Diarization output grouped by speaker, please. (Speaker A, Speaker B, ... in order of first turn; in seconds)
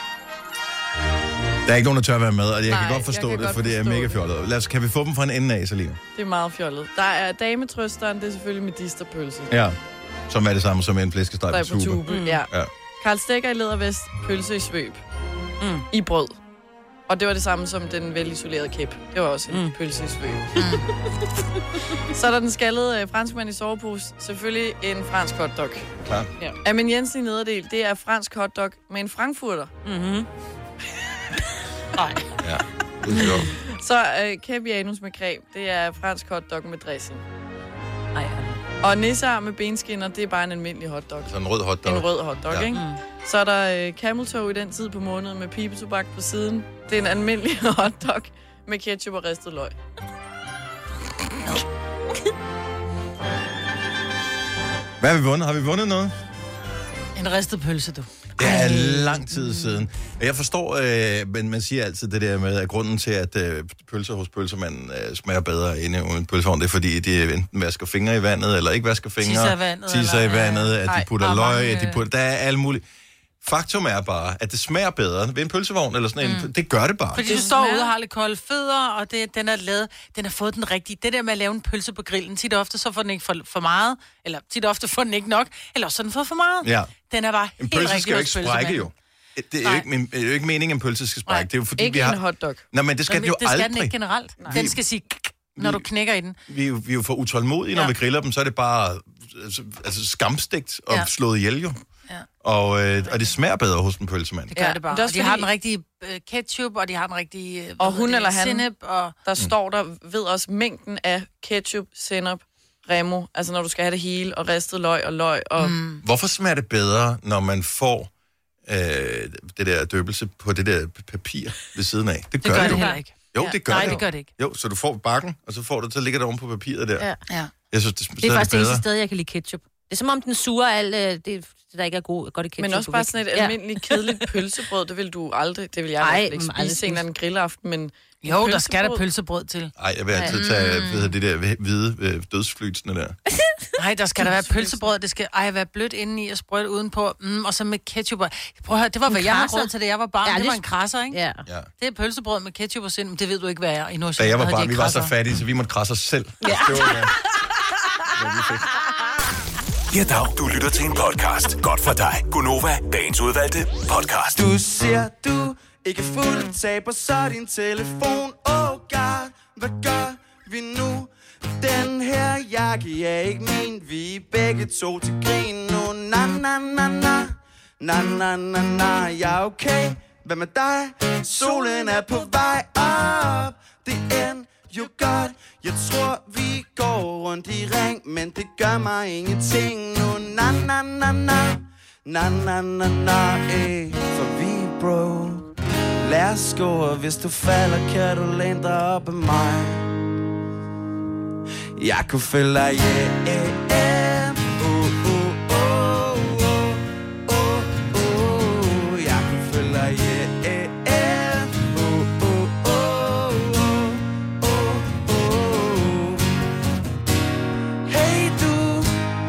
Speaker A: 1.6-6.0, 9.5-9.8, 10.3-12.7, 26.0-26.3, 32.4-33.6, 41.2-42.8, 55.0-56.1, 58.4-72.8, 73.4-77.3, 86.6-86.9, 87.6-94.0, 94.5-94.8, 95.5-95.9, 96.5-101.8, 102.4-104.5, 116.0-118.1, 118.7-127.1, 127.7-128.8, 139.8-143.2, 154.2-157.1, 158.1-158.7
Speaker B: 2.7-4.2, 6.1-9.5, 11.5-15.0, 15.9-16.3, 17.1-20.5, 22.1-25.8, 26.6-29.7, 33.7-37.2, 38.8-41.3, 41.8-49.8, 77.2-77.9, 91.8-92.6, 94.4-94.6, 104.5-105.5, 107.8-108.7, 109.2-115.8, 132.6-139.0
Speaker C: 12.1-12.4, 15.6-15.8, 19.5-19.7, 29.8-30.3, 38.1-38.6, 42.7-43.0, 122.5-124.0, 128.2-134.0, 136.0-137.0, 140.1-140.4, 144.4-144.8, 149.1-149.7, 150.2-151.4, 156.4-157.0
Speaker D: 20.5-20.9, 57.1-59.3, 69.2-72.0, 76.2-76.5, 77.1-88.9, 93.1-96.4, 104.5-109.1, 115.6-116.0, 122.4-124.3, 138.2-139.7, 140.3-141.1, 143.8-151.2, 151.8-155.1
Speaker E: 159.9-164.4
Speaker F: 164.3-195.5, 196.0-199.9, 201.8-216.4, 217.9-219.1